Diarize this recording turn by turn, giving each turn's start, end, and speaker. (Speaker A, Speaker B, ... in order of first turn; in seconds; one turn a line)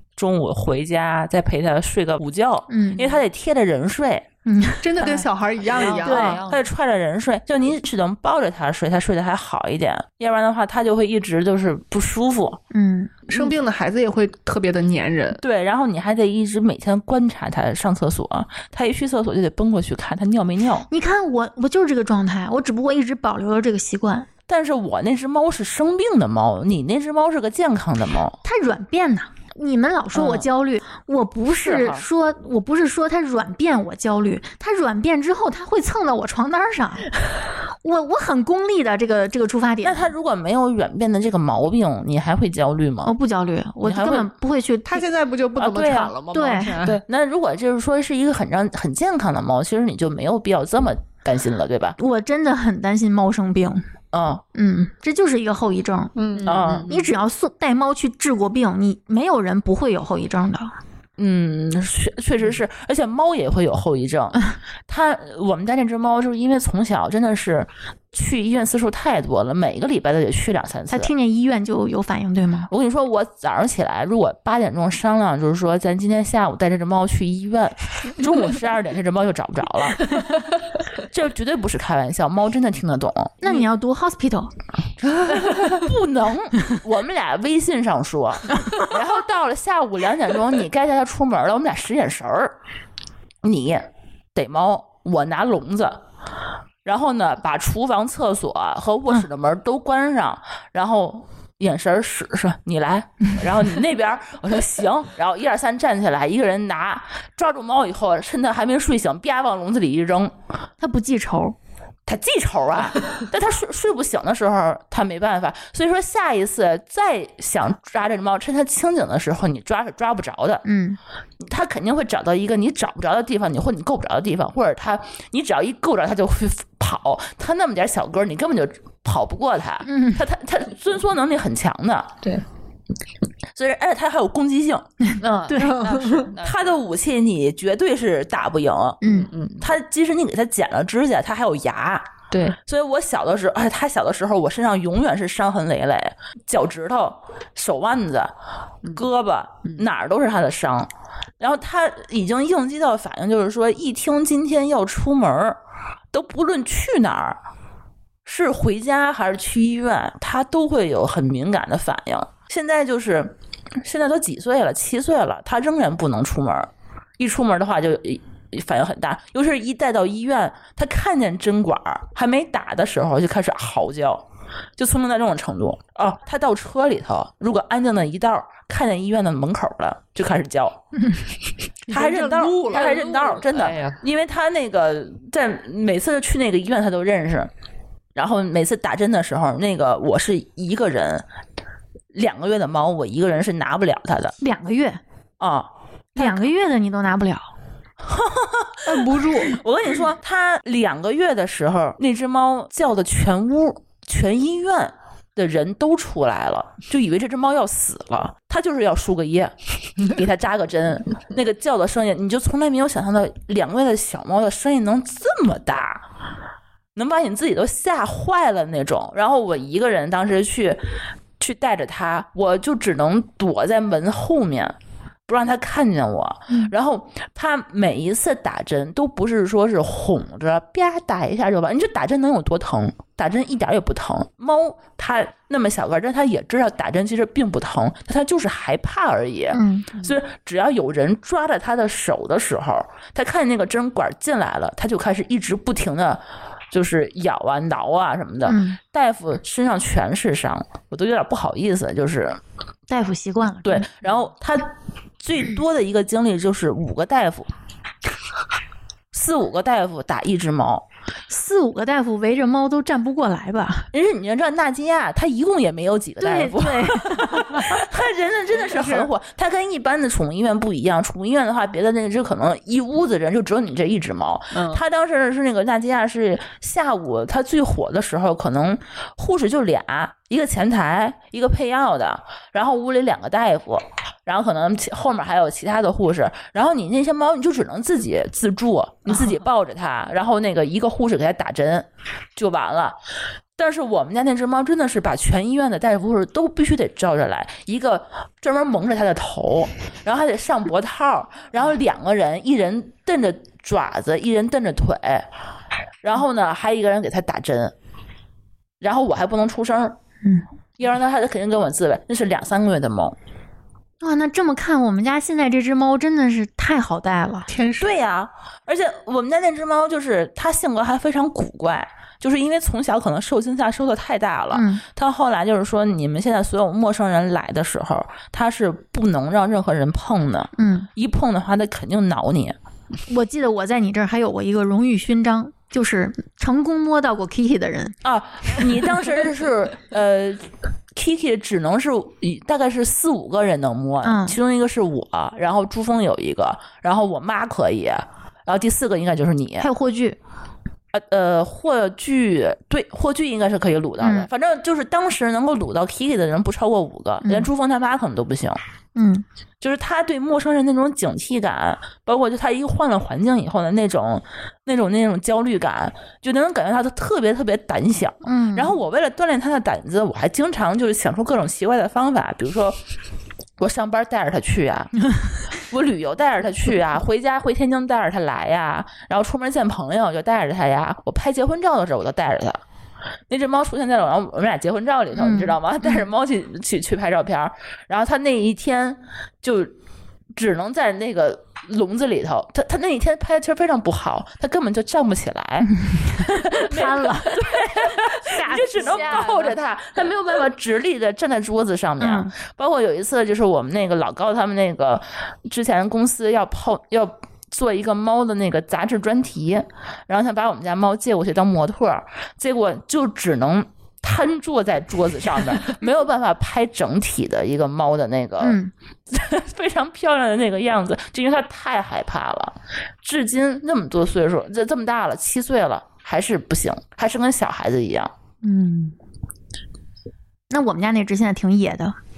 Speaker A: 0.2-4.3
Speaker B: 2.7-3.2
Speaker B: 4.5-5.2
Speaker C: 4.8-6.4
Speaker D: 5.6-6.6
Speaker B: 6.0-6.4
Speaker A: 6.2-12.6
Speaker B: 12.7-13.5
Speaker C: 13.3-15.4
Speaker A: 15.4-20.9
Speaker B: 20.9-24.3
Speaker A: 24.5-28.4
Speaker B: 28.4-37.1
Speaker A: 30.1-30.5
Speaker A: 31.6-32.0
Speaker B: 37.8-40.1
Speaker A: 39.8-43.1
Speaker B: 43.0-45.0
Speaker A: 43.8-44.3
Speaker C: 44.9-47.0
Speaker A: 45.5-46.1
Speaker B: 46.3-46.8
Speaker A: 46.8-52.0
Speaker B: 52.0-53.8
Speaker A: 54.1-54.4
Speaker B: 54.5-56.1
Speaker C: 56.1-56.6
Speaker D: 56.3-57.0
Speaker A: 56.4-56.9
Speaker B: 56.9-60.7
Speaker A: 61.2-71.1
Speaker B: 70.9-72.7
Speaker A: 72.7-80.2
Speaker A: 81.0-83.4
Speaker B: 83.4-84.5
Speaker A: 85.2-92.5
Speaker A: 93.4-96.0
Speaker A: 96.8-110.3
Speaker B: 110.8-111.5
Speaker A: 112.1-120.6
Speaker B: 120.6-121.0
Speaker A: 121.4-132.1
Speaker B: 129.8-130.2
Speaker A: 133.5-134.9
Speaker D: 135.2-136.6
Speaker B: 135.5-135.8
Speaker C: 135.6-136.3
Speaker A: 136.4-139.0
Speaker B: 139.0-139.3
Speaker D: 139.0-139.7
Speaker A: 139.6-142.1
Speaker D: 142.3-142.6
Speaker A: 142.6-148.3
Speaker A: 148.9-155.6
Speaker A: 156.1-157.4
Speaker A: 158.2-174.2
Speaker A: 174.8-180.8
Speaker C: 181.9-182.9
Speaker A: 181.9-187.5
Speaker D: 182.7-184.0
Speaker A: 188.1-191.2
Speaker A: 192.1-194.3
Speaker B: 194.4-195.0
Speaker A: 195.4-196.5
Speaker B: 196.2-197.5
Speaker A: 198.0-216.0
Speaker C: 198.8-199.6
Speaker A: 216.9-224.8
Speaker A: 225.3-252.4
Speaker B: 239.5-239.9
Speaker B: 248.4-248.8
Speaker B: 252.9-253.9
Speaker A: 253.6-257.5
Speaker A: 259.1-260.8
Speaker B: 261.3-263.9
Speaker A: 263.9-292.9
Speaker B: 266.2-267.8
Speaker C: 268.7-269.0
Speaker A: 293.6-305.3
Speaker A: 306.0-307.7
Speaker A: 308.8-310.0
Speaker A: 310.8-313.2
Speaker B: 314.0-317.5
Speaker C: 317.5-317.9
Speaker A: 317.8-332.6
Speaker B: 324.5-324.8
Speaker B: 330.6-330.9
Speaker B: 333.1-337.9
Speaker A: 338.0-349.7
Speaker B: 344.0-344.4
Speaker B: 349.6-350.2
Speaker A: 350.9-358.6
Speaker B: 354.0-354.3
Speaker B: 357.2-357.5
Speaker B: 358.9-359.2
Speaker A: 359.6-372.8
Speaker B: 368.2-368.7
Speaker A: 373.6-374.9
Speaker A: 375.5-382.6
Speaker A: 383.3-389.7
Speaker B: 385.1-385.6
Speaker A: 390.3-428.1
Speaker B: 395.7-397.4
Speaker B: 398.2-399.2
Speaker D: 398.5-399.5
Speaker B: 402.0-402.3
Speaker B: 418.4-418.7
Speaker B: 428.4-428.9
Speaker B: 430.5-432.0